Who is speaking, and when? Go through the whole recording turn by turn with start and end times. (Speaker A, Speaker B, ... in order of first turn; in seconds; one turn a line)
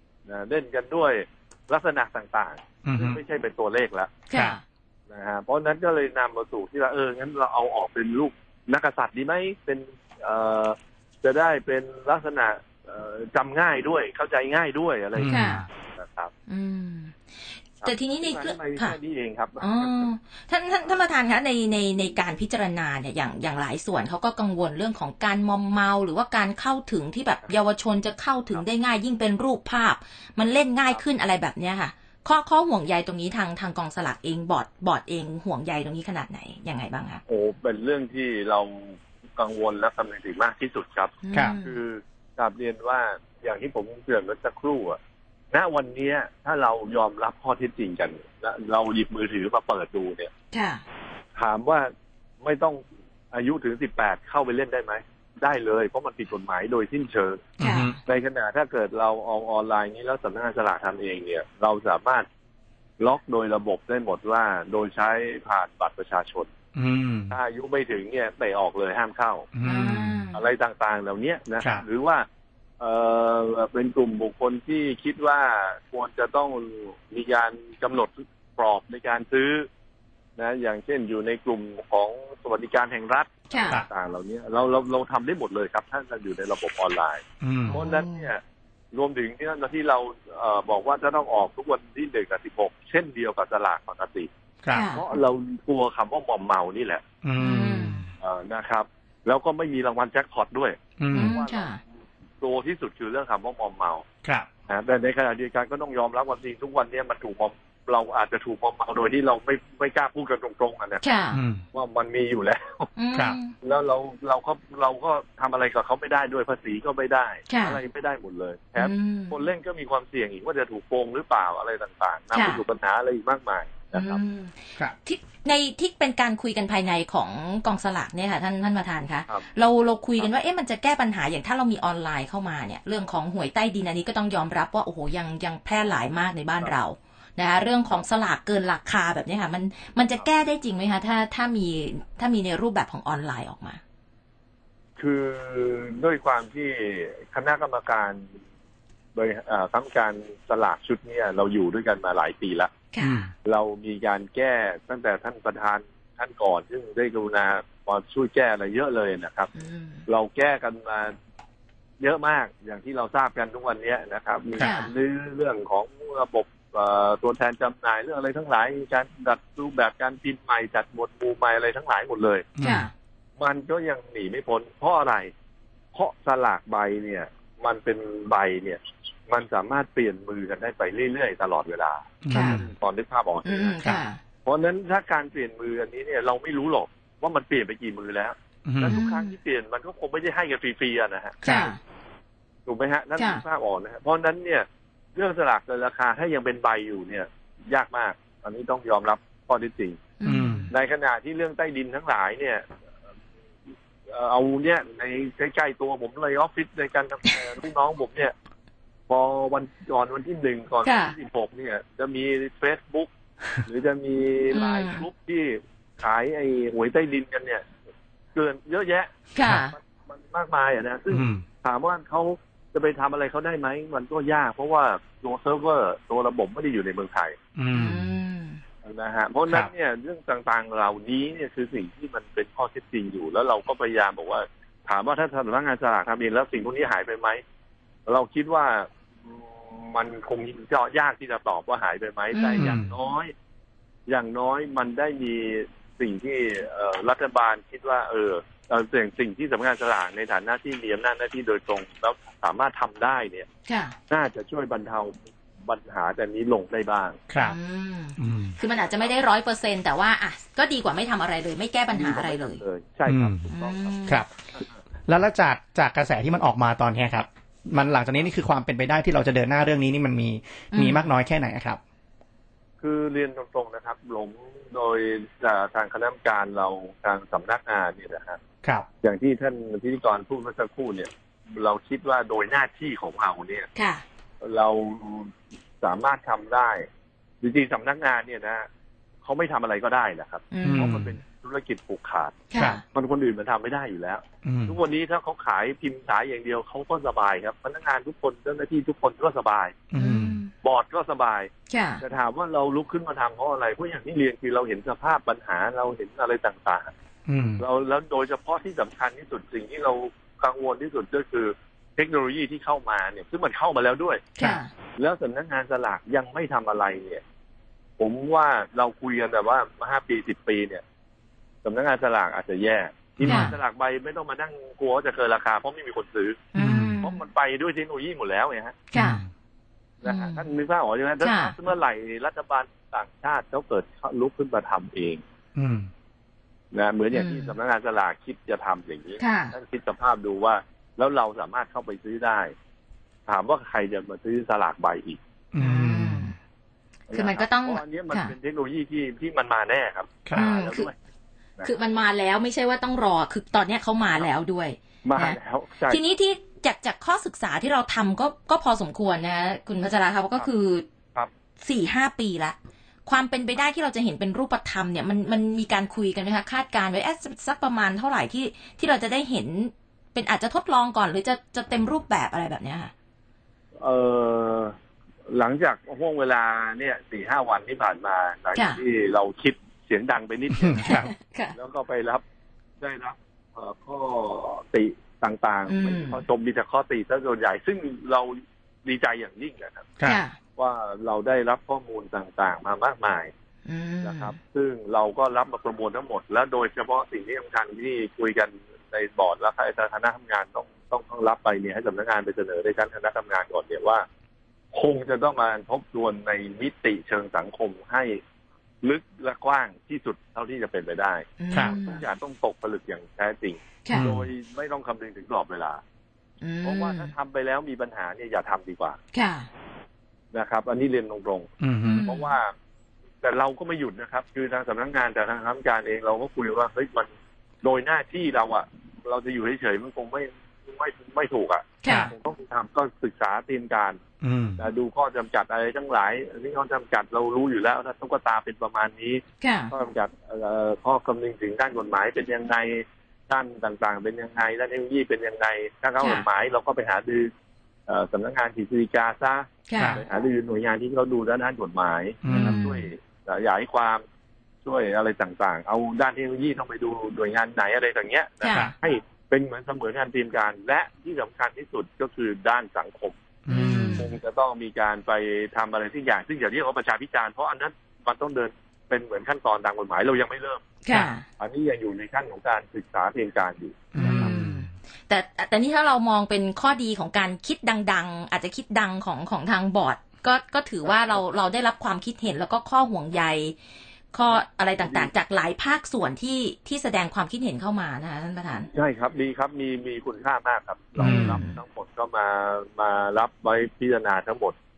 Speaker A: 0.3-4.1
Speaker B: 2.9-3.2
Speaker C: 4.3-4.6
Speaker A: 5.1-16.3
Speaker B: 15.2-15.6
Speaker C: 15.3-15.7
Speaker C: 16.5-17.1
Speaker A: 17.8-20.1
Speaker C: 17.8-18.9
Speaker C: 19.6-37.2
Speaker A: 37.3-45.0
Speaker C: 41.2-41.8
Speaker A: 45.5-50.3
Speaker C: 50.5-50.8
Speaker A: 51.4-51.9
Speaker A: 52.4-57.5
Speaker B: 57.6-57.9
Speaker C: 57.6-58.0
Speaker A: 58.0-62.2
Speaker A: 63.0-66.5
Speaker B: 66.7-67.3
Speaker A: 67.3-69.5
Speaker B: 69.5-70.2
Speaker C: 69.6-70.4
Speaker A: 70.3-72.2
Speaker B: 71.6-71.8
Speaker A: 72.8-79.7
Speaker A: 80.4-88.4
Speaker C: 83.5-83.8
Speaker B: 87.4-87.8
Speaker C: 87.7-88.3
Speaker A: 88.9-94.3
Speaker B: 94.6-94.9
Speaker C: 94.7-95.0
Speaker A: 94.9-97.0
Speaker B: 97.2-98.0
Speaker C: 97.4-98.1
Speaker A: 98.2-101.8
Speaker B: 101.0-101.4
Speaker C: 101.1-101.8
Speaker A: 102.4-104.0
Speaker A: 104.7-111.1
Speaker C: 111.0-111.4
Speaker B: 111.3-111.6
Speaker A: 111.7-112.9
Speaker C: 113.0-113.5
Speaker A: 113.6-124.2
Speaker C: 117.5-117.8
Speaker C: 118.8-119.4
Speaker C: 122.3-122.6
Speaker C: 123.9-143.8
Speaker A: 145.0-148.2
Speaker A: 149.1-152.7
Speaker C: 152.9-153.3
Speaker B: 153.0-153.3
Speaker A: 153.4-159.5
Speaker C: 159.5-160.0
Speaker A: 160.1-161.1
Speaker A: 162.0-172.5
Speaker C: 164.6-164.9
Speaker B: 172.6-172.8
Speaker C: 172.6-172.9
Speaker A: 173.4-175.3
Speaker A: 175.9-183.8
Speaker B: 182.2-182.7
Speaker C: 182.3-182.6
Speaker C: 183.4-184.2
Speaker A: 184.4-191.7
Speaker B: 188.7-189.0
Speaker C: 188.9-189.3
Speaker B: 191.4-191.7
Speaker C: 191.4-191.8
Speaker A: 192.7-200.0
Speaker C: 193.2-193.4
Speaker C: 200.2-200.7
Speaker B: 200.2-200.7
Speaker A: 200.7-202.7
Speaker A: 204.1-208.3
Speaker A: 209.1-213.1
Speaker C: 210.8-211.1
Speaker A: 213.6-217.6
Speaker C: 214.5-215.1
Speaker A: 218.3-219.1
Speaker C: 219.3-219.8
Speaker A: 220.1-227.4
Speaker B: 221.1-221.4
Speaker B: 227.6-228.1
Speaker C: 227.7-228.6
Speaker A: 228.8-237.4
Speaker A: 238.1-243.3
Speaker C: 242.3-242.7
Speaker B: 242.6-242.9
Speaker A: 244.1-253.5
Speaker C: 253.7-253.9
Speaker A: 254.1-255.1
Speaker A: 255.7-257.2
Speaker B: 257.3-257.6
Speaker C: 257.4-262.6
Speaker B: 258.2-258.6
Speaker A: 258.8-259.0
Speaker A: 261.9-264.6
Speaker B: 263.1-263.5
Speaker C: 263.5-264.2
Speaker B: 265.1-271.8
Speaker C: 270.7-271.1
Speaker A: 272.8-278.4
Speaker A: 279.0-283.7
Speaker C: 283.7-284.0
Speaker A: 284.4-286.8
Speaker A: 287.4-288.7
Speaker A: 289.2-292.4
Speaker C: 290.5-291.1
Speaker B: 290.6-291.1
Speaker C: 292.5-292.8
Speaker A: 292.9-299.8
Speaker B: 294.4-294.8
Speaker B: 299.9-300.4
Speaker C: 299.9-300.5
Speaker A: 300.6-306.9
Speaker C: 301.7-302.0
Speaker B: 307.3-307.6
Speaker A: 307.6-314.3
Speaker C: 314.4-314.7
Speaker A: 315.0-317.2
Speaker A: 318.0-320.8
Speaker A: 321.6-326.4
Speaker B: 323.2-323.5
Speaker C: 323.2-323.6
Speaker C: 326.5-327.2
Speaker B: 326.6-327.0
Speaker A: 327.0-328.8
Speaker C: 328.9-329.2
Speaker B: 328.9-329.3
Speaker A: 330.0-335.2
Speaker C: 330.0-330.5
Speaker C: 331.2-331.5
Speaker B: 335.5-335.9
Speaker A: 336.7-342.5
Speaker C: 337.1-337.5
Speaker C: 339.2-339.5
Speaker A: 343.3-345.2
Speaker B: 345.5-346.2
Speaker C: 345.6-346.3
Speaker A: 347.1-350.9
Speaker C: 347.1-348.3
Speaker C: 350.3-350.9
Speaker C: 351.6-355.4
Speaker A: 355.0-356.0
Speaker C: 355.9-360.8
Speaker C: 361.6-362.6
Speaker C: 363.1-372.9
Speaker A: 373.8-374.7
Speaker A: 375.3-381.0
Speaker C: 378.5-378.8
Speaker B: 380.6-381.1
Speaker C: 380.8-381.5
Speaker A: 381.5-382.2
Speaker A: 382.8-389.9
Speaker C: 385.7-386.2
Speaker C: 390.0-390.4
Speaker A: 390.6-393.3
Speaker C: 393.6-394.3
Speaker A: 394.0-404.0
Speaker A: 404.7-408.2
Speaker A: 408.8-415.8
Speaker C: 411.4-412.0
Speaker B: 413.9-414.3
Speaker C: 416.4-417.1
Speaker A: 416.6-419.0
Speaker C: 419.1-419.5
Speaker A: 420.3-422.5
Speaker B: 421.6-422.1
Speaker C: 421.8-422.3
Speaker A: 423.2-427.1
Speaker A: 427.6-434.0
Speaker C: 431.8-432.1
Speaker B: 434.2-434.6
Speaker A: 434.6-447.3
Speaker C: 439.4-439.7
Speaker C: 446.0-446.3
Speaker A: 447.9-454.0
Speaker C: 449.7-450.0
Speaker B: 449.8-450.0
Speaker B: 452.2-452.6
Speaker C: 452.3-452.9
Speaker A: 454.6-463.2
Speaker C: 458.4-458.7
Speaker B: 463.4-464.0
Speaker C: 463.5-464.1
Speaker A: 464.0-470.6
Speaker C: 470.8-471.2
Speaker A: 471.4-474.3
Speaker B: 473.9-474.7
Speaker C: 474.0-483.6
Speaker A: 480.8-481.2
Speaker C: 484.1-488.7
Speaker A: 484.3-485.1
Speaker A: 488.7-494.5
Speaker B: 491.0-491.4
Speaker C: 491.0-491.6